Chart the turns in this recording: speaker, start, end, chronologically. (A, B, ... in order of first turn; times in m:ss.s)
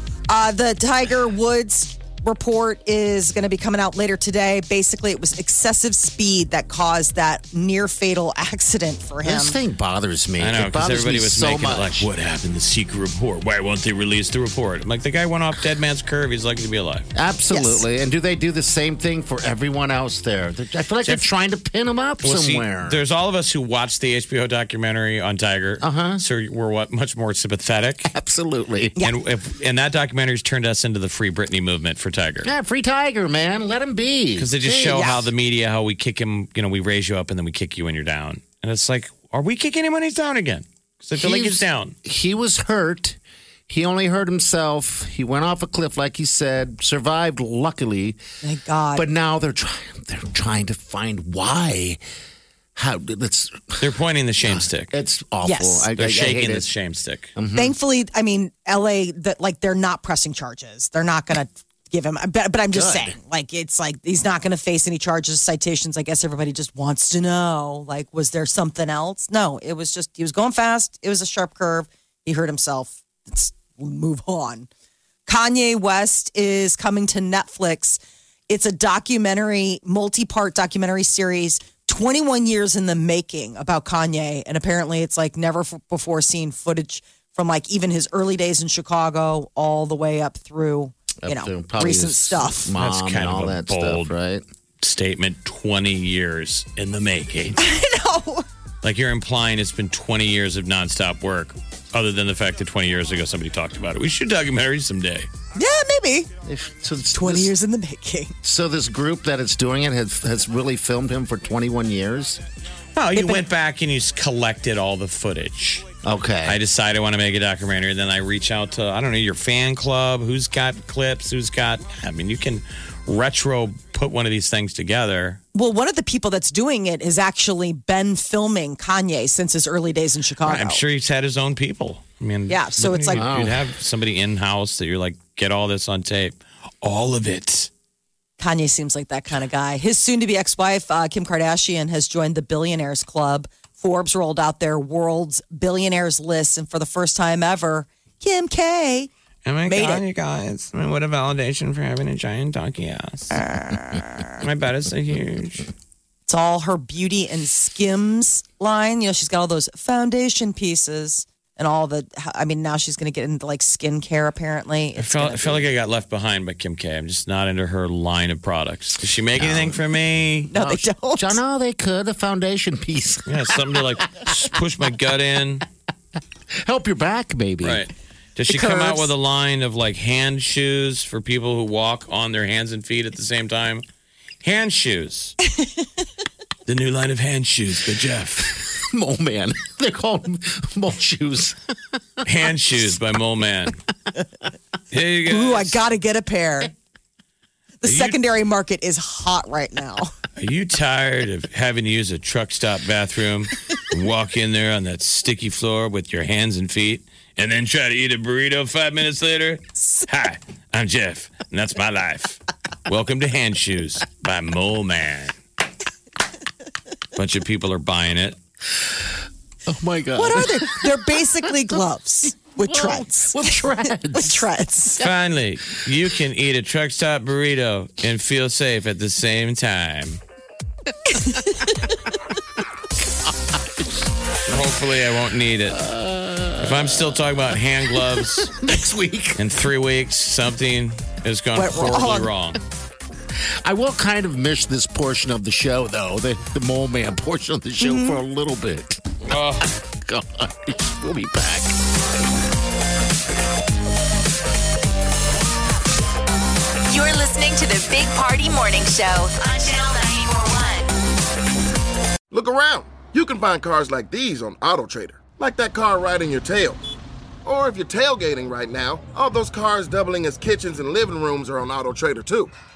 0:00.3-0:09.6 A
0:09.2-0:12.1 B
0:10.4-0:17.1 C
0:17.1-0:23.0 B
0:17.5-0:17.8 A
0:22.2-0:28.1 C
0:25.8-0:26.2 B
0:28.0-0:29.0 B
0:29.0-0:32.5 C
0:32.4-0:35.3 B
0:34.4-0:41.9 C
0:41.2-0:48.2 B
0:48.4-0:49.0 A
0:48.9-0:52.0 B
0:52.8-0:53.8 B
0:53.8-0:55.0 C
0:54.4-0:56.7 B
0:55.4-0:55.9 A
0:55.9-0:57.3 C
0:57.4-0:57.8 B
0:57.5-1:14.7 A
1:02.7-1:03.2 B
1:15.3-1:32.7 A
1:31.2-1:34.4 B
1:32.8-1:34.1 C
1:34.8-1:37.6 C
1:37.6-1:38.4 A
1:38.8-1:45.3 C
1:45.5-1:46.3 A
1:46.4-1:47.5 B
1:47.1-1:48.3 A
1:48.4-1:52.4 B
1:52.9-1:55.8 C
1:53.1-1:53.4 A
1:56.0-1:56.6 B
1:56.4-2:05.4 C
2:05.5-2:10.8 A
2:10.4-2:17.7 C
2:12.5-2:13.2 A
2:13.1-2:13.6 B
2:18.4-2:29.1 A
2:29.4-2:33.4 C
2:29.6-2:30.0 A
2:33.4-2:34.3 A
2:34.3-2:35.7 C
2:36.3-2:45.6 A
2:45.0-2:50.5 C
2:49.4-2:49.8 B
2:50.5-2:51.4 A
2:50.5-2:53.8 B
2:53.3-2:55.6 C
2:56.6-2:57.8 B
2:57.6-3:03.8 C
2:58.5-2:59.1 A
3:04.4-3:05.4 C
3:06.6-3:08.5 C
3:08.6-3:11.6 B
3:12.2-3:13.8 C
3:14.9-3:15.8 C
3:15.3-3:16.7 A
3:17.8-3:20.1 A
3:17.8-3:18.2 C
3:20.4-3:35.4 C
3:37.2-3:38.4 C
3:39.7-3:41.0 B
3:40.2-3:45.0 A
3:42.6-3:44.5 B
3:45.0-3:50.2 C
3:51.1-3:51.7 A
3:54.5-3:55.8 C
3:55.7-3:57.4 B
3:56.6-3:58.6 C
3:58.1-3:59.4 B
3:59.4-4:02.6 C
4:01.5-4:02.3 A
4:03.4-4:09.0 B
4:07.8-4:08.2 A
4:09.3-4:09.7 C
4:09.9-4:11.7 B
4:16.8-4:20.9 D
4:22.3-4:26.8 E
4:27.4-4:32.5 E